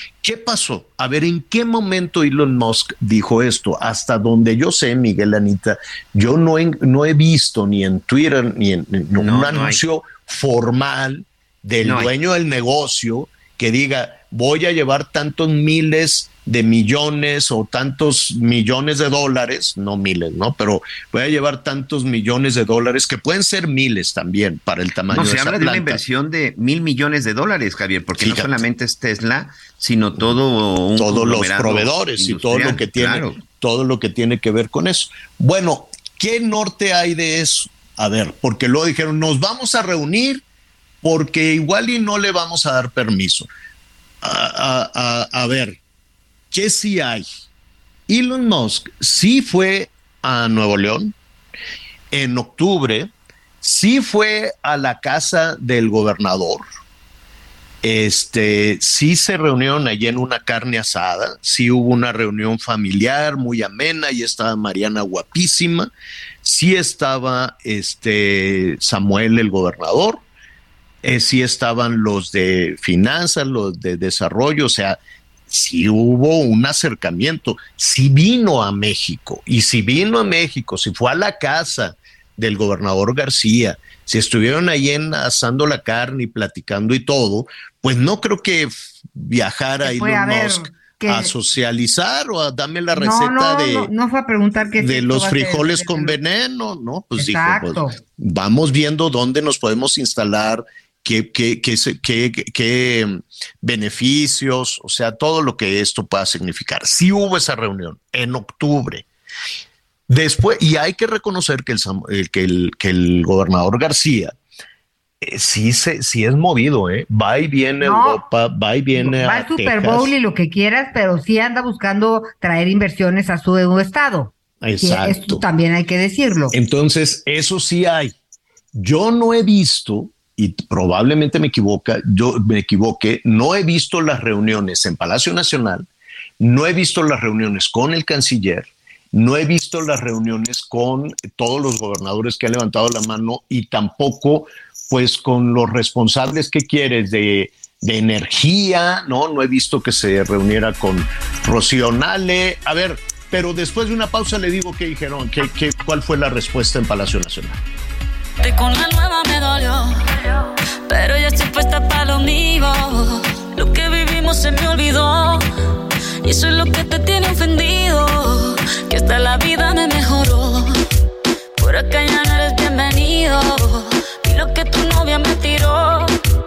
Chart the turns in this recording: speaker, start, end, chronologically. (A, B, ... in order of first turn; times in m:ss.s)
0:00.2-0:26.0 A
0:09.2-0:09.8 B
0:11.8-0:12.1 B
0:25.1-0:33.4 B
0:28.2-0:28.6 A
0:31.0-0:40.4 A
0:41.0-0:43.5 A
0:44.2-0:45.8 A
0:46.5-0:47.2 A
0:48.1-0:51.1 A
0:52.1-0:56.6 A
0:57.8-1:05.9 A
1:06.4-1:10.2 A
1:11.0-1:33.9 A
1:29.8-1:31.3 C
1:32.9-1:36.2 C
1:34.7-1:49.0 A
1:37.2-1:38.0 C
1:50.1-1:54.3 A
1:55.2-2:00.1 A
1:57.8-1:58.2 C
1:58.9-2:06.5 C
2:04.6-2:05.4 A
2:06.5-2:08.1 A
2:08.7-2:15.8 A
2:16.4-2:37.6 A
2:38.4-2:40.2 D
2:40.9-2:45.5 D
2:46.2-2:50.8 D
2:51.6-2:56.2 D